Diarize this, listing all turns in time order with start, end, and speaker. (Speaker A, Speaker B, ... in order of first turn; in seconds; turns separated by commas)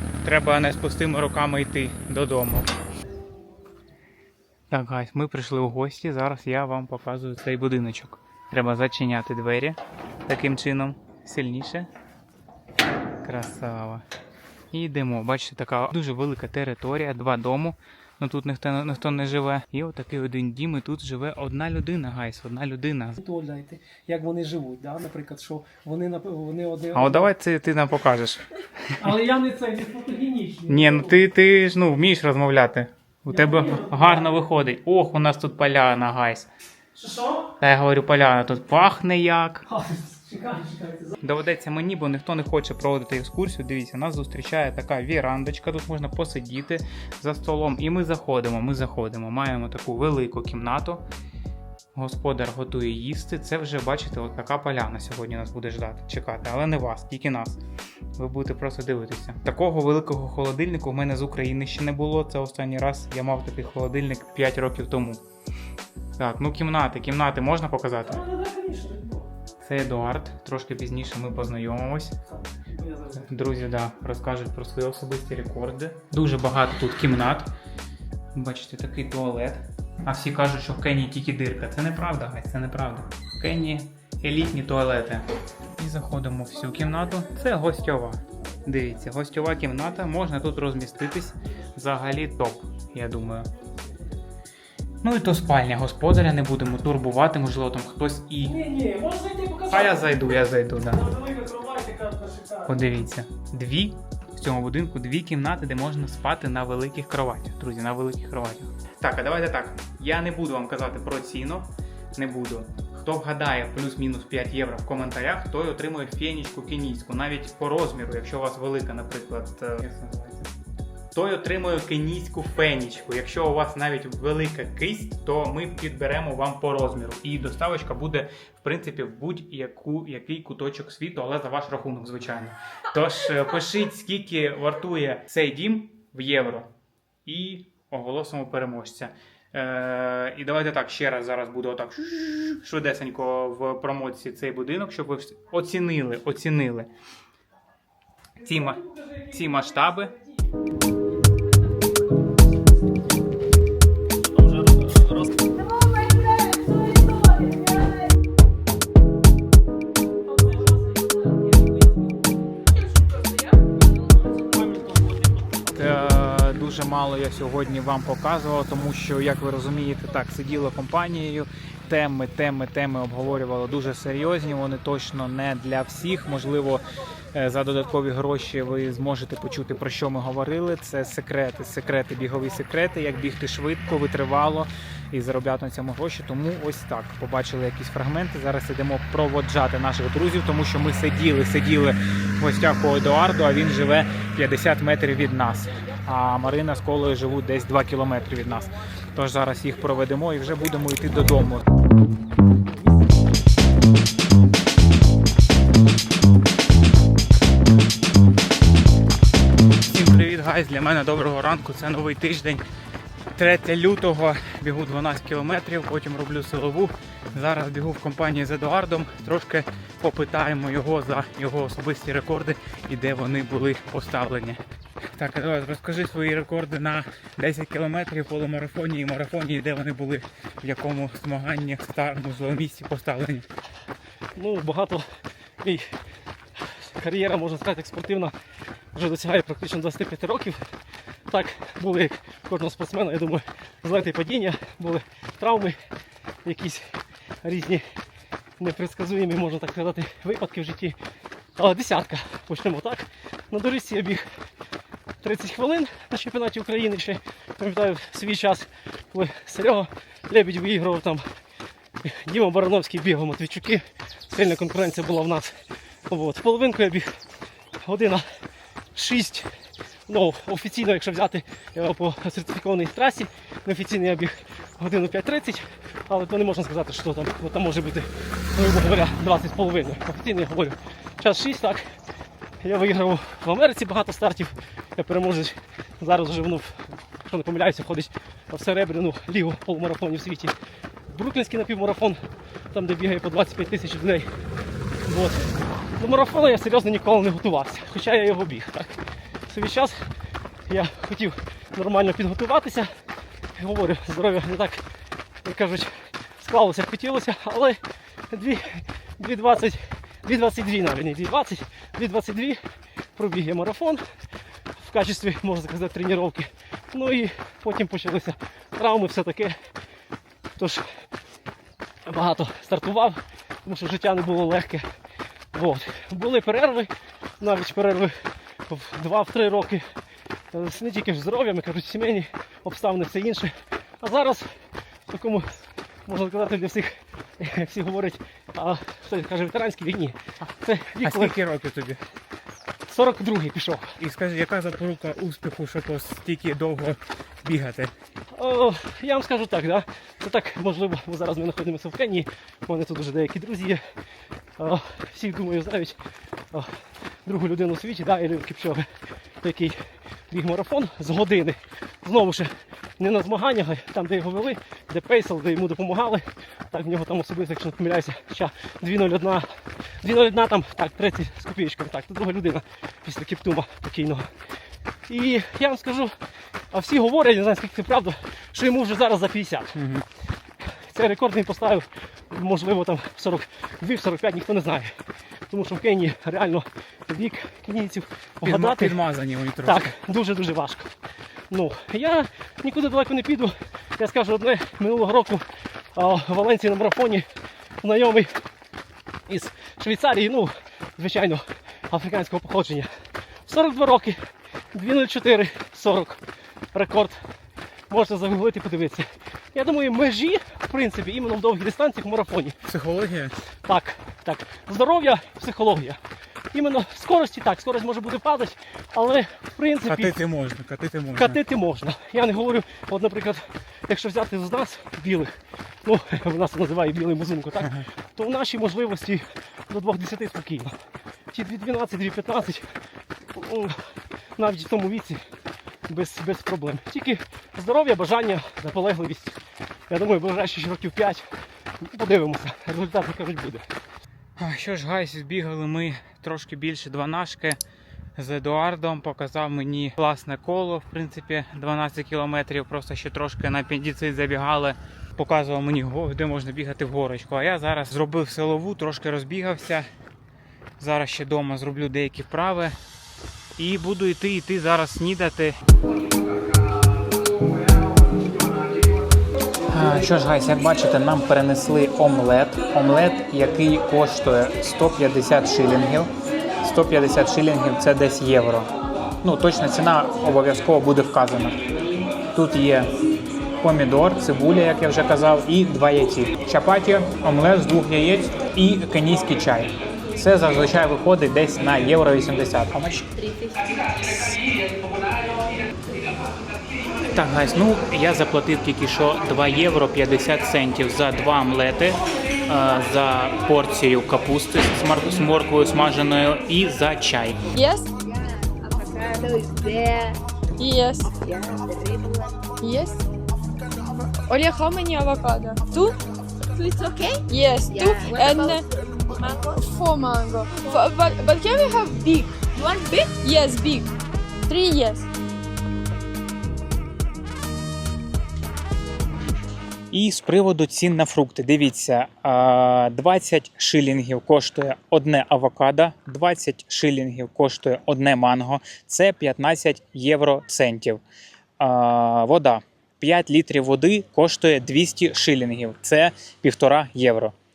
Speaker A: 0.2-2.7, Speaker A: 4.7-11.9, Speaker A: 13.2-14.0, Speaker A: 14.7-23.2, Speaker B: 23.2-27.3, Speaker A: 26.9-29.1, Speaker B: 29.0-31.1, Speaker A: 30.7-36.5, Speaker B: 33.3-34.3, Speaker B: 37.0-37.5, Speaker A: 37.6-39.6, Speaker B: 39.7-41.2, Speaker A: 41.2-51.0, Speaker A: 51.9-57.6, Speaker A: 58.1-65.2, Speaker A: 66.2-68.2, Speaker B: 68.0-69.3, Speaker A: 69.6-72.2, Speaker B: 72.3-73.3, Speaker A: 73.2-77.5, Speaker A: 78.3-93.5, Speaker A: 95.0-98.6, Speaker B: 98.4-100.2, Speaker A: 99.7-101.0, Speaker B: 100.9-102.8, Speaker A: 102.7-120.5, Speaker A: 121.1-136.7, Speaker A: 137.2-146.9, Speaker A: 148.4-150.1, Speaker B: 148.8-149.6, Speaker B: 154.5-155.2, Speaker B: 164.6-164.9, Speaker A: 165.7-201.7, Speaker A: 209.8-212.6, Speaker A: 213.3-224.6, Speaker A: 225.1-233.5, Speaker B: 234.3-235.1, Speaker B: 235.6-236.0, Speaker B: 236.6-238.3, Speaker B: 238.9-240.7, Speaker B: 241.3-245.8, Speaker B: 246.4-248.0, Speaker B: 248.6-251.0, Speaker B: 251.6-254.2, Speaker B: 255.2-261.2, Speaker B: 262.0-267.1, Speaker B: 267.8-268.3, Speaker B: 268.9-269.5, Speaker B: 270.1-281.9, Speaker B: 282.6-290.5, Speaker B: 291.1-294.3, Speaker B: 295.0-300.1, Speaker B: 300.7-302.9, Speaker B: 303.6-304.8, Speaker B: 305.4-312.6, Speaker B: 313.1-314.0, Speaker B: 314.8-319.6, Speaker B: 320.6-321.0, Speaker B: 322.0-324.9, Speaker B: 325.5-329.9, Speaker B: 330.5-341.4, Speaker A: 341.0-342.0, Speaker B: 342.9-343.9, Speaker A: 344.0-347.9, Speaker B: 348.3-353.8, Speaker B: 354.6-356.0, Speaker B: 356.5-358.9, Speaker B: 359.4-374.3, Speaker B: 375.1-376.2, Speaker B: 376.7-379.8, Speaker A: 379.8-380.0, Speaker B: 380.6-389.0, Speaker A: 388.4-389.9, Speaker B: 389.6-390.9, Speaker B: 391.5-397.3, Speaker B: 397.8-398.4, Speaker B: 399.3-402.9, Speaker B: 403.5-406.2, Speaker B: 406.7-407.2, Speaker B: 407.9-412.6, Speaker A: 412.7-413.3, Speaker B: 413.6-416.0, Speaker B: 416.5-420.2, Speaker A: 419.9-421.4, Speaker B: 421.1-430.7, Speaker B: 431.3-432.8, Speaker B: 433.3-435.2, Speaker B: 435.9-439.4, Speaker B: 439.9-441.3, Speaker B: 441.8-443.7, Speaker A: 444.4-447.6, Speaker A: 448.2-459.9, Speaker A: 460.8-462.8, Speaker A: 463.6-465.6, Speaker A: 469.7-478.7, Speaker A: 479.2-481.6, Speaker A: 482.3-482.9, Speaker A: 483.6-493.1, Speaker A: 497.1-507.4, Speaker C: 507.5-507.9, Speaker D: 508.0-510.2, Speaker C: 510.6-511.1, Speaker D: 511.1-512.4, Speaker C: 512.6-513.0, Speaker C: 514.2-516.0, Speaker D: 516.6-518.7, Speaker C: 517.2-518.6, Speaker C: 519.1-523.9, Speaker C: 524.5-525.1, Speaker A: 529.9-541.0, Speaker A: 541.6-547.3